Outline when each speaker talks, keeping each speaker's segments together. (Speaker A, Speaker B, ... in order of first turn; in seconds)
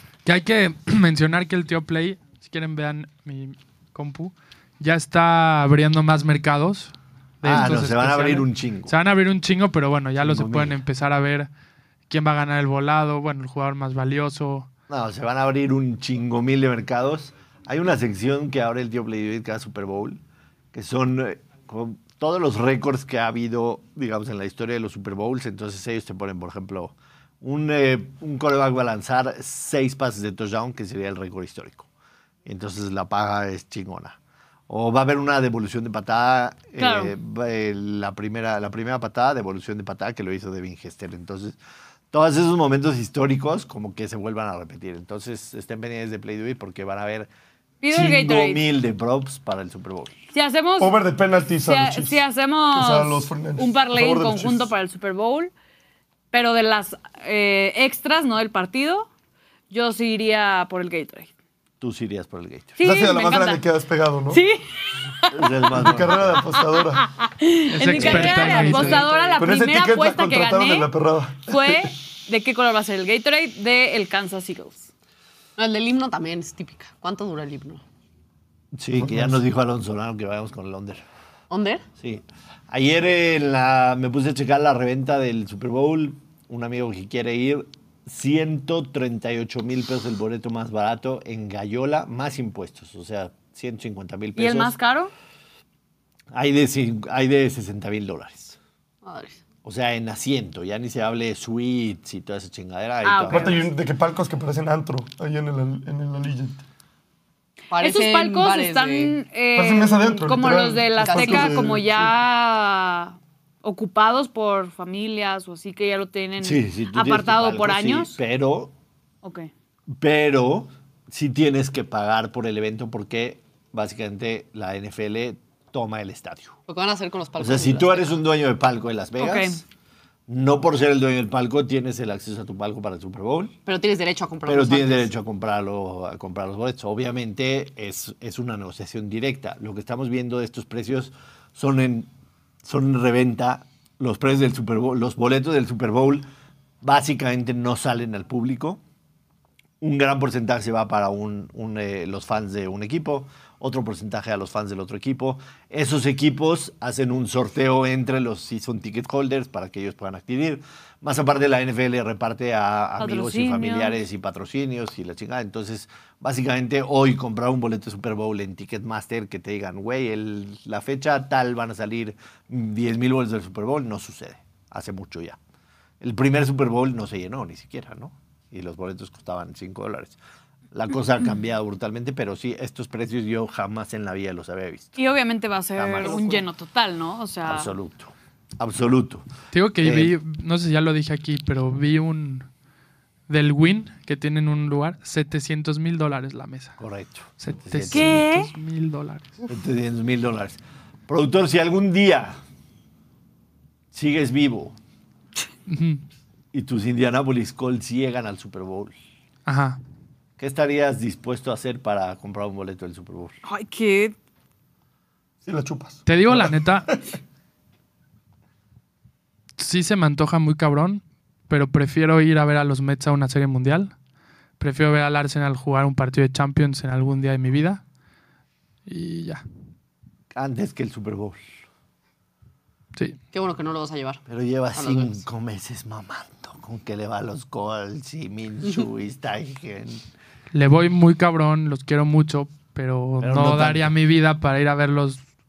Speaker A: 0.2-11.5, 12.1-14.7, 67.7-69.1, 189.5-192.5, 193.3-196.8, 197.4-199.4, 205.7-206.0, 209.5-209.8, 216.1-216.9, 219.6-223.9, 224.6-227.8, 228.9-229.4, 240.5-245.2
Speaker B: 7.4-8.9, 10.2-10.8, 14.9-20.2, 20.7-31.9, 32.5-34.2, 34.7-41.6, 42.1-47.3, 47.9-50.1, 61.8-62.8, 65.3-66.4, 78.7-81.0, 82.0-94.8, 96.3-98.6, 99.6-103.7, 116.4-118.7, 119.9-126.6, 127.4-129.6, 130.3-133.6, 134.5-142.1, 142.6-146.3, 146.8-148.8, 149.8-175.4, 176.0-180.2, 180.7-185.0, 185.8-186.4, 187.5-189.3, 189.8-190.1, 196.8-198.2, 199.5-202.4, 203.9-204.8, 206.5-208.9, 210.4-213.4, 230.3-231.5, 234.3-240.0, 243.2-243.9
Speaker C: 36.8-37.1, 47.8-48.6, 50.3-51.0, 51.6-55.5, 56.3-59.1, 59.7-61.3, 62.8-63.6, 64.3-65.5, 67.0-70.9, 71.5-74.9, 94.4-95.1, 103.0-103.6, 107.8-118.2, 119.2-119.5, 129.2-129.6, 163.0-164.0, 185.0-187.7, 197.9-198.5, 213.4-214.2
Speaker D: 50.8-52.2, 52.7-54.7, 62.8-64.4, 65.7-67.0, 69.4-71.9, 79.0-79.4, 103.3-106.6, 109.6-111.8, 215.4-217.0
Speaker E: 68.0-69.4, 75.6-77.8, 81.5-81.8, 99.0-99.4, 107.7-109.2, 111.0-111.7, 126.7-128.2, 133.7-135.1, 233.3-234.2, 234.8-235.2